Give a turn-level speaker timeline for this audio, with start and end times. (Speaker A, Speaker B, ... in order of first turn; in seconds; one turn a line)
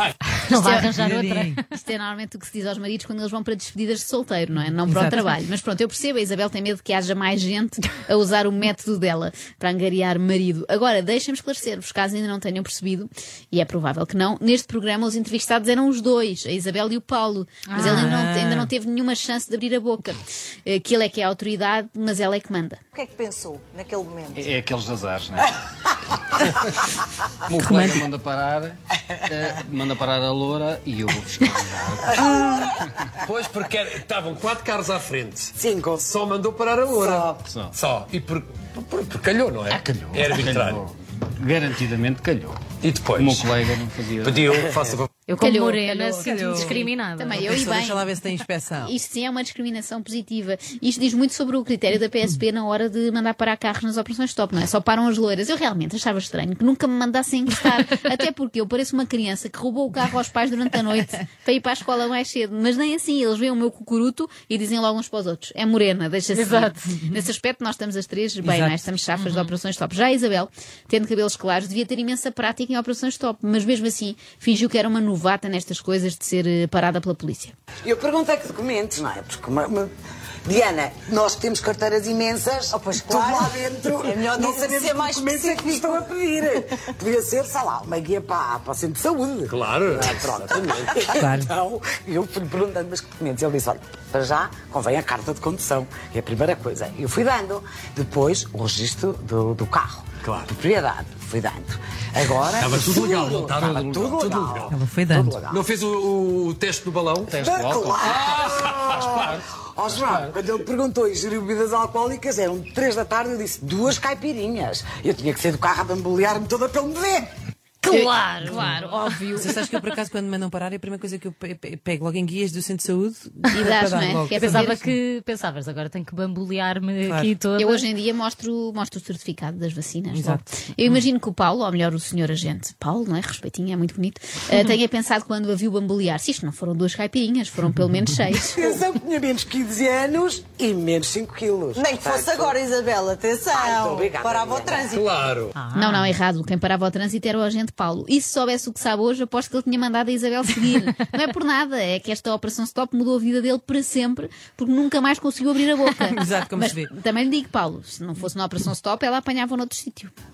Speaker A: 0.4-1.6
Speaker B: 0.5-22.8
Speaker C: 0.9-1.6
Speaker A: 17.7-18.2
Speaker C: 17.8-18.7
Speaker D: 22.9-24.5
Speaker E: 24.4-25.4
Speaker E: 27.4-28.8
Speaker C: 27.6-28.1
Speaker E: 29.3-32.2
Speaker F: 32.1-32.7
Speaker G: 33.2-40.9
Speaker F: 35.5-36.1
Speaker F: 36.9-37.4
Speaker E: 37.4-37.7
Speaker E: 39.7-40.9
Speaker E: 41.4-44.4
Speaker G: 42.8-43.5
Speaker G: 44.2-45.1
Speaker A: 45.3-47.5
Speaker B: 45.4-48.1
Speaker C: 46.2-48.9
Speaker B: 48.8-77.5
Speaker A: 66.3-66.9
Speaker C: 68.4-68.8
Speaker A: 69.2-69.5
Speaker F: 77.8-79.9
Speaker F: 80.4-105.6
Speaker D: 82.7-86.7
Speaker G: 89.5-91.1
Speaker C: 91.1-91.5
Speaker G: 100.2-100.5
Speaker G: 102.6-104.7
Speaker C: 104.7-105.4
Speaker G: 105.5-107.4
Speaker E: 107.3-108.0
Speaker F: 107.3-117.3
Speaker G: 108.0-109.4
Speaker A: 117.8-119.2
Speaker B: 117.9-119.5
Speaker C: 119.3-124.9
Speaker B: 123.5-124.8
Speaker A: 124.3-127.9
Speaker C: 127.0-127.3
Speaker B: 127.6-138.7
Speaker C: 130.1-130.4
Speaker F: 138.5-142.6
Speaker D: 141.7-145.1
Speaker F: 143.5-144.9
Speaker G: 144.9-145.5
Speaker A: 145.5-146.1
Speaker B: 145.7-160.1
Speaker C: 156.0-156.9